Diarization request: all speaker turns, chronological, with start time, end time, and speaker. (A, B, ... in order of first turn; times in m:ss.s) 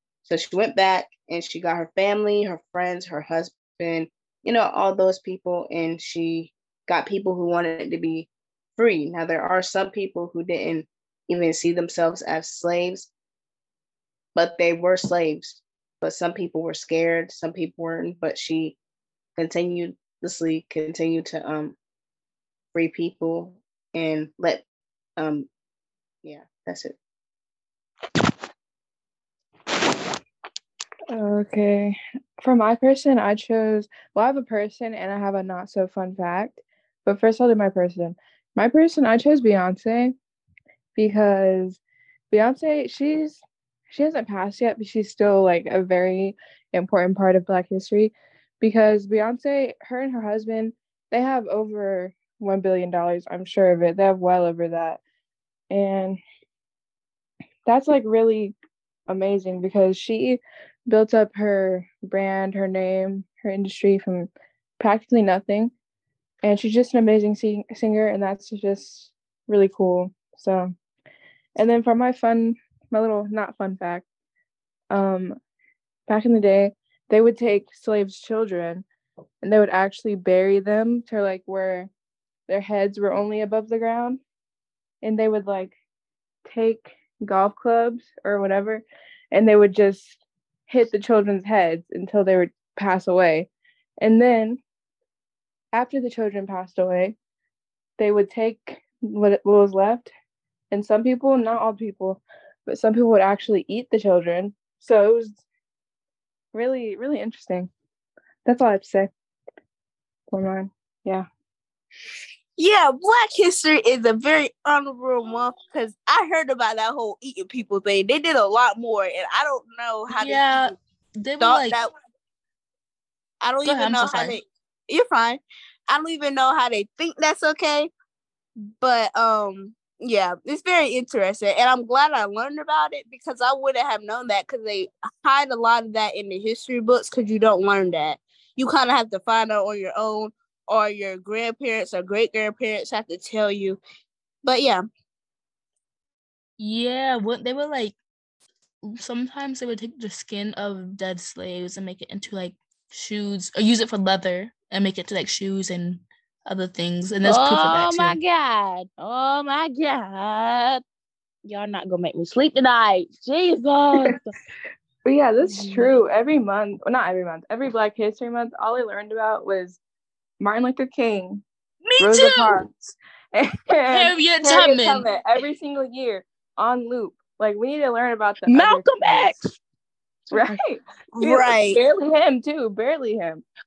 0:00.2-0:13.1 A
0:14.3-0:18.8 A
0:19.4-0:21.8 A
0:22.7-0:24.6 A
0:25.2-0:25.5 A
0:26.2-0:27.0 A
0:31.1-0:40.1 B
0:41.0-0:55.0 B
0:55.7-0:56.2 B
0:57.6-0:58.5 B
0:59.1-1:05.7 B
1:06.4-1:10.7 B
1:11.6-1:14.0 B
1:14.9-1:15.4 B
1:16.1-1:18.8 B
1:19.4-1:21.9 B
1:22.5-1:24.2 B
1:25.0-1:25.7 B
1:26.4-1:33.5 B
1:34.0-1:34.6 B
1:35.7-1:37.2 B
1:38.0-1:40.1 B
1:40.7-1:45.4 B
1:46.5-1:47.7 B
1:48.4-1:49.1 B
1:50.3-1:51.2 B
1:52.6-2:00.6 C
2:00.1-2:01.8 D
2:01.4-2:01.9 C
2:03.4-2:07.9 C
2:03.6-2:04.4 D
2:08.8-2:23.8 C
2:24.4-2:24.8 C
2:26.6-2:28.0 D
2:28.8-2:38.2 D
2:37.2-2:40.8 E
2:41.4-2:44.3 E
2:45.0-2:49.8 B
2:45.4-2:45.9 E
2:50.4-2:51.4 B
2:51.8-2:52.6 D
2:52.0-2:59.4 B
2:53.9-2:55.1 D
2:58.5-2:59.5 E
3:00.3-3:00.6 E
3:00.3-3:03.4 B
3:01.2-3:01.8 C